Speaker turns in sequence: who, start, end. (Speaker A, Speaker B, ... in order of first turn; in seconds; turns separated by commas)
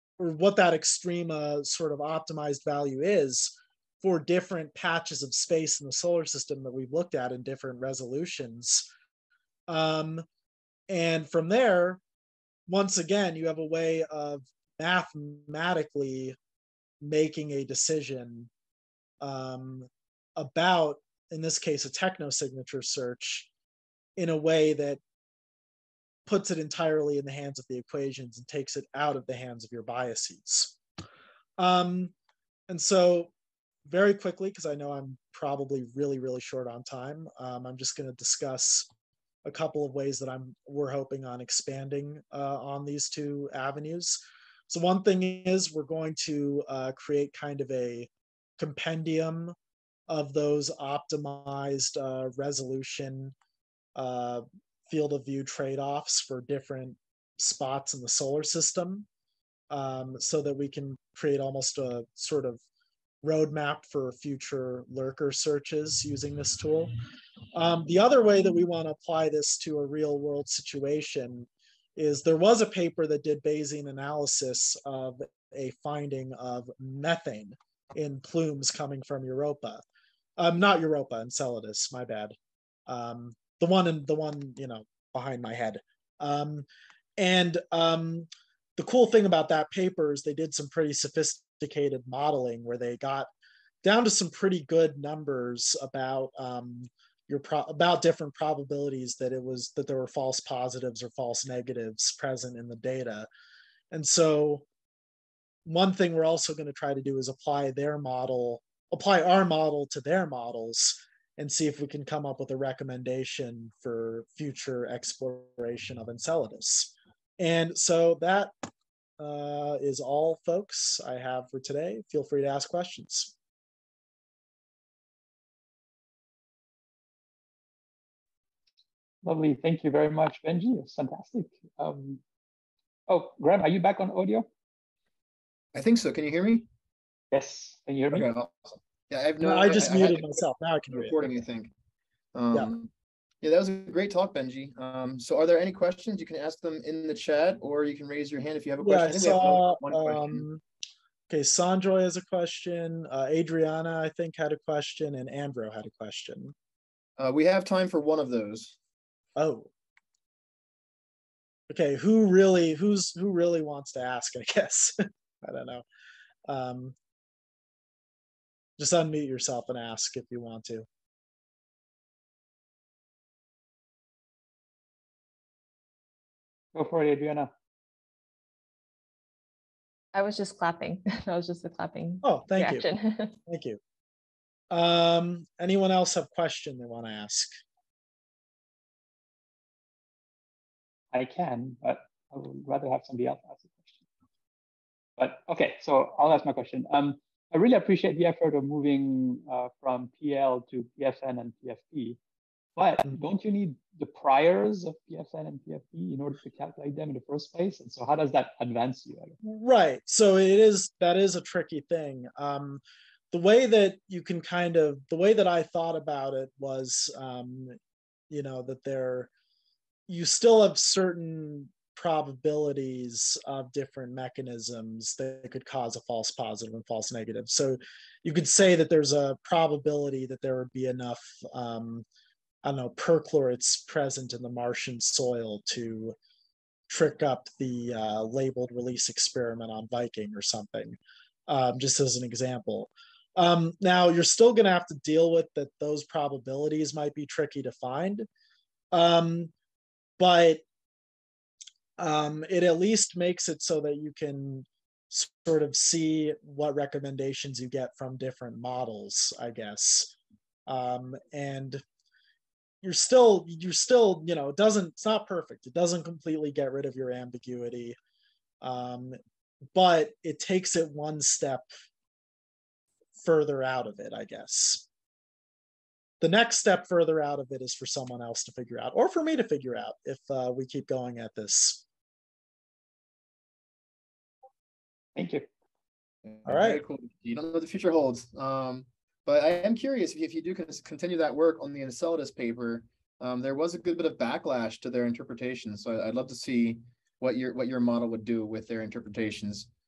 Speaker A: 0.2-8.8, Speaker A: 9.7-10.2, Speaker A: 10.9-12.0, Speaker A: 12.7-16.4, Speaker A: 17.0-18.5, Speaker A: 19.2-23.5, Speaker A: 24.2-25.0, Speaker A: 26.3-30.8, Speaker A: 31.6-32.1, Speaker A: 32.7-33.3, Speaker A: 33.9-38.9, Speaker A: 39.5-49.5, Speaker A: 50.1-53.3, Speaker A: 54.0-59.1, Speaker A: 59.7-62.6, Speaker A: 63.2-66.9, Speaker A: 67.5-79.8, Speaker A: 80.4-82.3, Speaker A: 82.9-86.7, Speaker A: 87.2-93.3, Speaker A: 93.8-103.3, Speaker A: 103.9-104.7, Speaker A: 105.7-118.5, Speaker A: 119.2-123.3, Speaker B: 129.2-132.2, Speaker B: 133.1-134.5, Speaker C: 135.7-136.7, Speaker B: 137.3-138.3, Speaker C: 138.1-141.7, Speaker A: 139.4-141.3, Speaker C: 142.3-142.9, Speaker C: 143.4-150.5, Speaker A: 148.8-150.6, Speaker A: 151.3-156.6, Speaker C: 157.2-158.8, Speaker A: 159.4-159.7, Speaker A: 161.7-165.8, Speaker A: 166.5-166.9, Speaker A: 168.8-170.9, Speaker B: 176.8-177.5, Speaker D: 180.1-183.3, Speaker A: 182.2-182.9, Speaker A: 183.4-183.8, Speaker A: 184.7-187.5, Speaker B: 191.1-193.9, Speaker B: 195.2-202.2, Speaker B: 202.8-209.3, Speaker A: 209.4-212.8, Speaker A: 213.3-217.8, Speaker A: 218.3-219.3, Speaker A: 220.1-232.1, Speaker A: 232.6-236.2, Speaker A: 236.9-248.3, Speaker A: 248.9-249.5, Speaker A: 250.2-250.6, Speaker A: 252.0-260.1, Speaker A: 260.7-261.8, Speaker A: 262.8-268.0, Speaker A: 268.6-269.2, Speaker A: 269.8-271.7, Speaker A: 273.2-274.9, Speaker A: 276.2-281.8, Speaker B: 285.2-285.5, Speaker C: 286.3-299.7, Speaker A: 286.5-286.8